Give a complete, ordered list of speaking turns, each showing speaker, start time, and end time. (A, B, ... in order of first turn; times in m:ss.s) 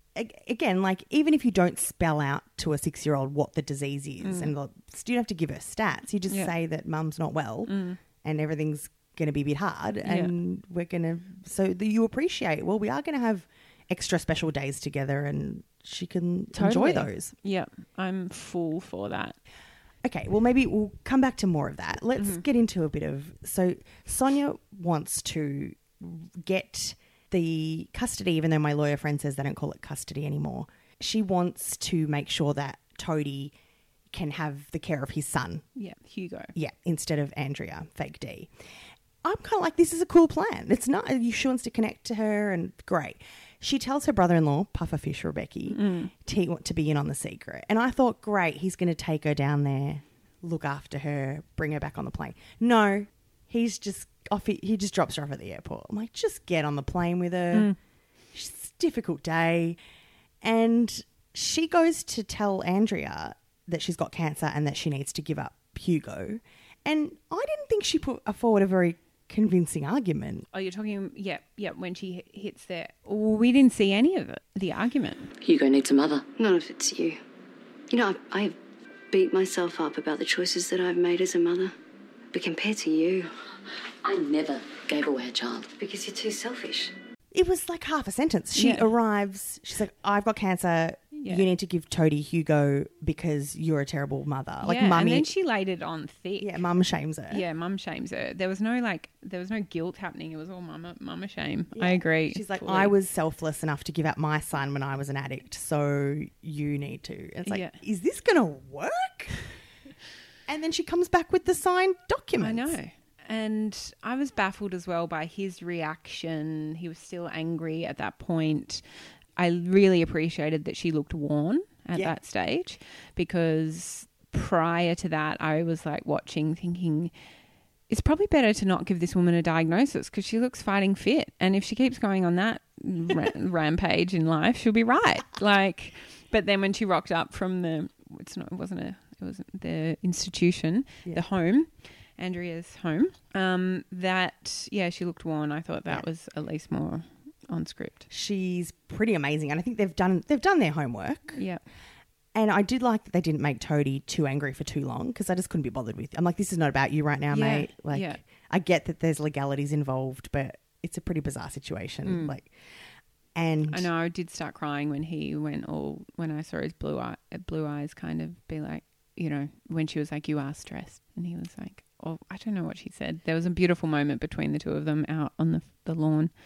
0:00.1-0:17.3 A
0:04.2-0:04.5 B
0:07.6-0:08.0 B
0:10.0-0:10.3 B
0:16.5-0:19.4 B
0:20.0-0:33.5 A
0:22.2-0:22.4 B
0:34.1-0:35.6 A
0:35.8-0:36.5 B
0:36.5-0:38.5 A
0:39.2-0:57.7 A
0:45.7-0:46.1 B
0:58.3-0:59.8 A
1:00.4-1:10.4 A
1:10.5-1:15.3 B
1:15.4-1:16.2 C
1:16.4-1:17.2 D
1:17.9-1:18.6 D
1:19.1-1:21.7 D
1:22.3-1:23.3 D
1:24.0-1:25.7 C
1:25.7-1:26.9 D
1:27.3-1:35.3 A
1:28.5-1:28.9 B
1:31.1-1:31.4 B
1:34.6-1:36.6 B
1:36.4-1:37.4 A
1:37.3-1:42.9 B
1:41.7-1:49.3 A
1:47.4-1:47.8 B
1:50.5-1:52.8 A
1:52.4-1:58.8 B
1:59.4-2:07.1 B
2:07.9-2:28.1 B
2:28.1-2:31.4 A
2:31.3-2:31.6 B
2:32.3-2:42.5 A
2:37.3-2:38.2 B
2:42.0-2:42.4 B
2:43.3-2:43.9 A
2:43.7-2:56.3 B